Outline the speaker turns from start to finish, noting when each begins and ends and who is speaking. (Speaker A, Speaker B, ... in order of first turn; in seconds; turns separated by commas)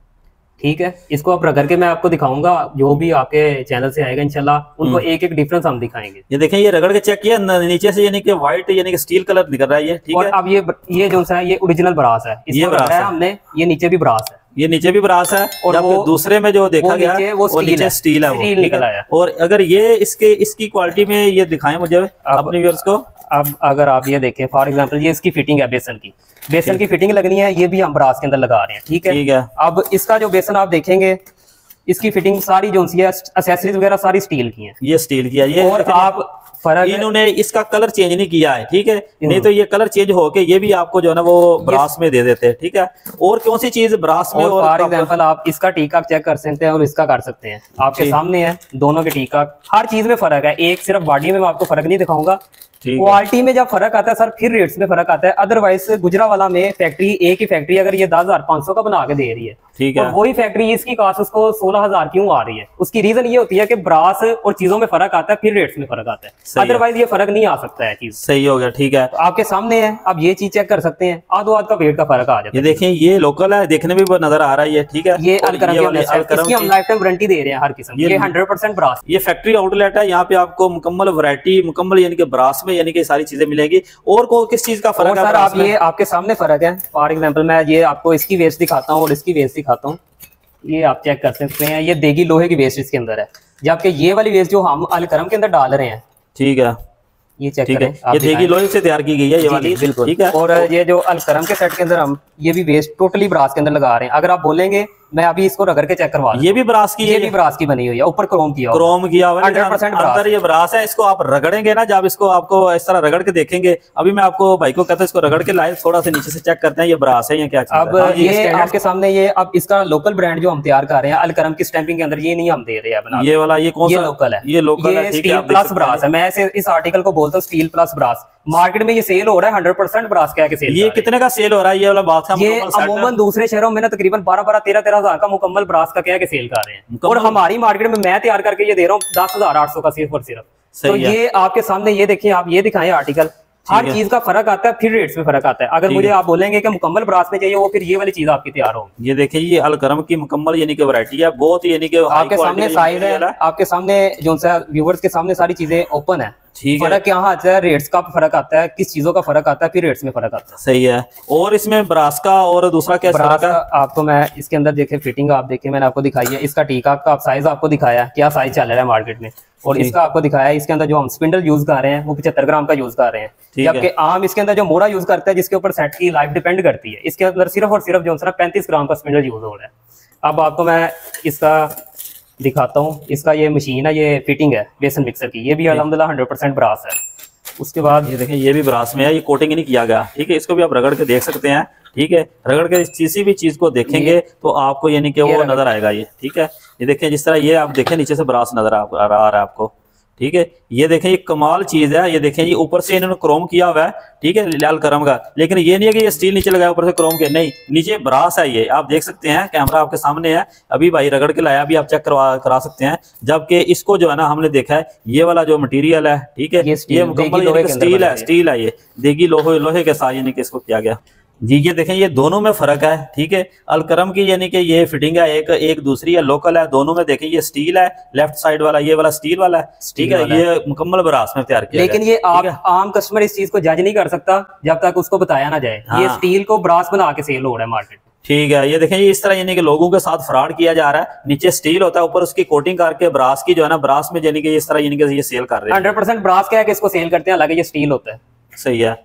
Speaker A: 0.6-6.2, Speaker B: 6.3-10.3, Speaker A: 10.1-14.4, Speaker B: 12.5-13.1, Speaker B: 14.6-23.1, Speaker A: 15.6-16.1, Speaker A: 16.8-19.0, Speaker A: 22.2-22.6, Speaker A: 23.3-31.2, Speaker B: 29.1-29.5, Speaker A: 31.9-34.8, Speaker B: 34.8-36.1, Speaker A: 35.6-37.0, Speaker B: 36.8-45.1, Speaker A: 39.2-39.5, Speaker A: 44.3-52.4, Speaker B: 52.8-53.2, Speaker A: 53.0-68.2, Speaker B: 59.8-60.2, Speaker B: 66.5-66.8, Speaker B: 68.2-69.1, Speaker A: 69.1-72.8, Speaker B: 72.5-76.7, Speaker A: 75.2-79.0, Speaker B: 78.0-78.3, Speaker B: 79.0-85.7, Speaker A: 85.0-90.0, Speaker A: 90.6-96.0, Speaker B: 96.3-96.8, Speaker A: 97.4-98.5, Speaker B: 97.7-100.7, Speaker A: 99.4-108.9, Speaker B: 106.3-107.3, Speaker B: 108.7-118.7, Speaker A: 109.4-110.3, Speaker A: 117.7-123.3, Speaker B: 123.1-126.0, Speaker A: 123.8-131.1, Speaker B: 130.7-133.1, Speaker A: 132.3-148.9, Speaker B: 136.9-137.4, Speaker B: 140.7-141.2, Speaker B: 143.7-144.0, Speaker B: 145.8-146.1, Speaker B: 149.0-153.3, Speaker A: 152.1-160.6, Speaker B: 156.5-157.0, Speaker B: 160.6-163.6, Speaker A: 163.1-179.7, Speaker B: 173.5-173.9, Speaker A: 180.2-181.8, Speaker A: 182.4-186.9, Speaker A: 187.6-188.1, Speaker B: 188.0-232.6, Speaker A: 193.9-194.2, Speaker A: 195.2-195.6, Speaker A: 216.6-218.3, Speaker A: 229.8-230.4, Speaker A: 231.7-238.0, Speaker B: 235.9-236.2, Speaker B: 238.2-245.9, Speaker A: 245.7-248.2, Speaker B: 248.6-249.0